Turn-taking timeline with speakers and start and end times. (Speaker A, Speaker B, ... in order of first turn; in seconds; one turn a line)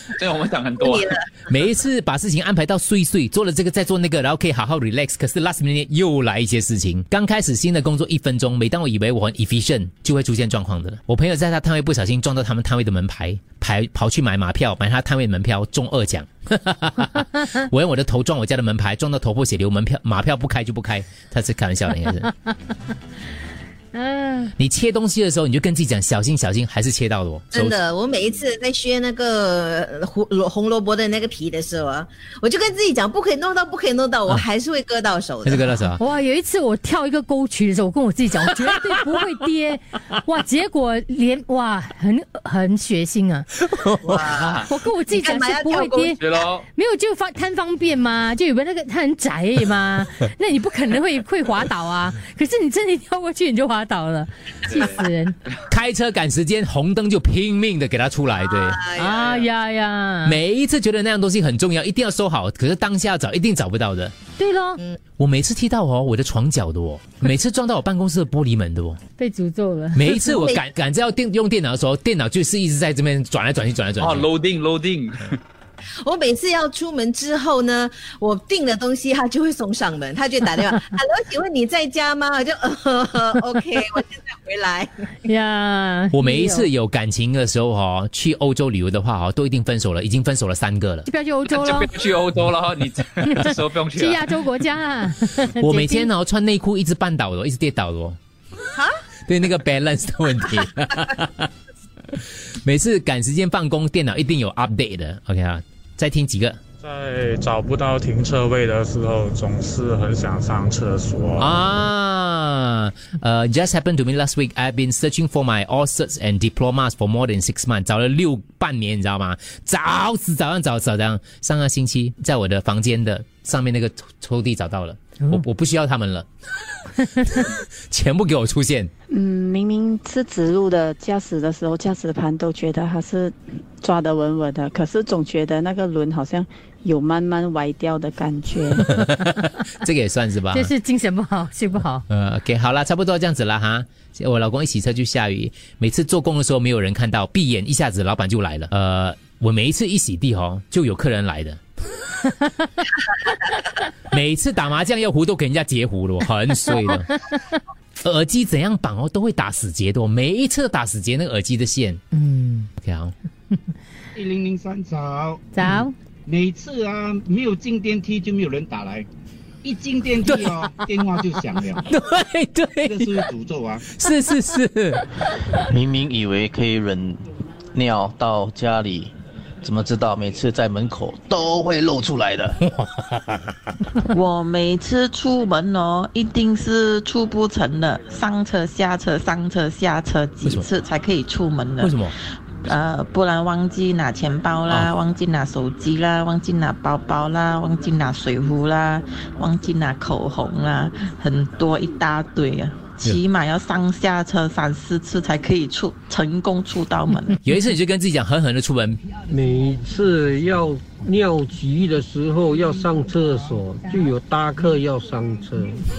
Speaker A: 0.2-1.1
Speaker B: 0.8-1.2
Speaker C: 1.5-22.3
Speaker D: 23.9-24.5
Speaker C: 24.6-27.8
Speaker B: 27.5-35.7
Speaker C: 35.4-36.0
Speaker D: 36.0-43.5
Speaker B: 44.0-46.1
Speaker D: 44.7-46.2
Speaker A: 46.2-46.6
Speaker D: 46.7-55.3
Speaker A: 54.7-55.1
Speaker C: 55.7-58.8
Speaker B: 58.5-59.4
Speaker D: 59.0-60.4
Speaker C: 60.2-64.1
Speaker D: 64.4-64.8
Speaker C: 65.2-69.0
Speaker D: 69.2-70.2
Speaker C: 69.9-74.3
Speaker B: 70.2-70.6
Speaker A: 74.0-75.4
Speaker B: 76.0-84.9
Speaker D: 85.2-86.7
Speaker C: 86.1-91.1
Speaker D: 91.0-92.0
Speaker A: 91.4-94.5
Speaker D: 93.2-96.1
Speaker C: 95.5-98.2
Speaker C: 99.3-101.5
Speaker C: 102.6-106.6
Speaker E: 106.8-111.5
Speaker C: 111.4-126.2
Speaker C: 127.2-128.9
Speaker F: 129.1-138.8
Speaker C: 139.0-140.7
Speaker D: 140.5-142.0
Speaker C: 142.1-151.6
Speaker C: 154.1-157.1
Speaker C: 158.0-162.0
Speaker D: 162.1-162.7
Speaker C: 162.8-163.1
Speaker G: 164.1-165.5
Speaker D: 165.5-165.9
Speaker G: 166.2-169.1
Speaker G: 169.6-171.8
Speaker C: 170.2-170.8
Speaker C: 171.9-173.2
Speaker G: 172.8-173.8
Speaker C: 173.9-175.0
Speaker H: 175.7-177.2
Speaker H: 177.7-182.6
Speaker I: 184.1-207.4
Speaker C: 191.8-192.1
Speaker C: 207.4-209.0
Speaker J: 209.3-215.8